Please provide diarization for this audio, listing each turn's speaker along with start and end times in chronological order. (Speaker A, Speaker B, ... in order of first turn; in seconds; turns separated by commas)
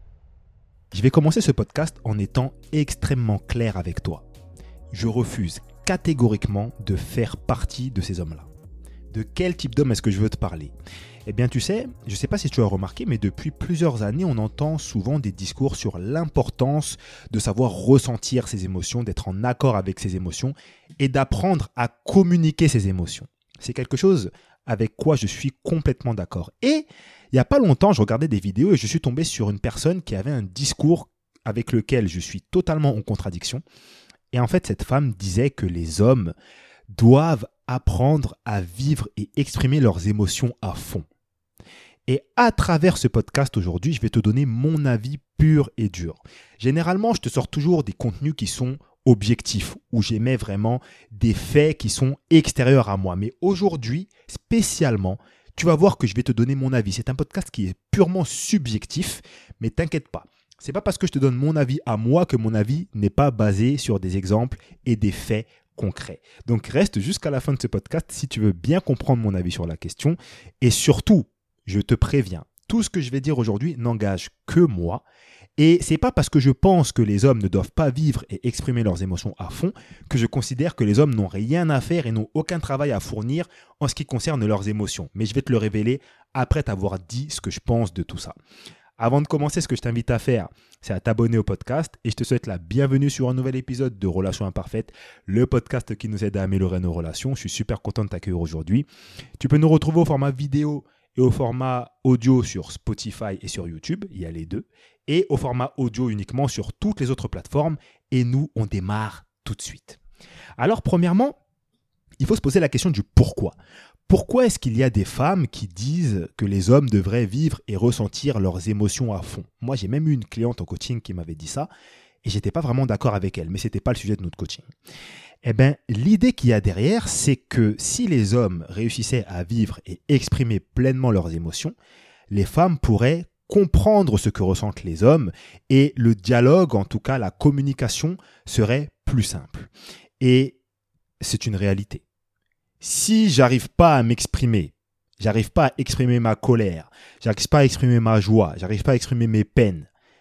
Speaker A: 0.9-4.2, Speaker A: 4.9-8.5, Speaker A: 9.1-10.7, Speaker A: 11.2-33.6, Speaker A: 34.3-36.3, Speaker A: 36.9-41.0, Speaker A: 42.1-75.0, Speaker A: 75.6-88.3, Speaker A: 89.0-98.8, Speaker A: 99.4-110.0, Speaker A: 110.6-111.3, Speaker A: 112.2-113.5, Speaker A: 114.1-121.7, Speaker A: 122.2-124.7, Speaker A: 125.4-131.7, Speaker A: 132.3-140.6, Speaker A: 141.2-142.0, Speaker A: 142.8-149.9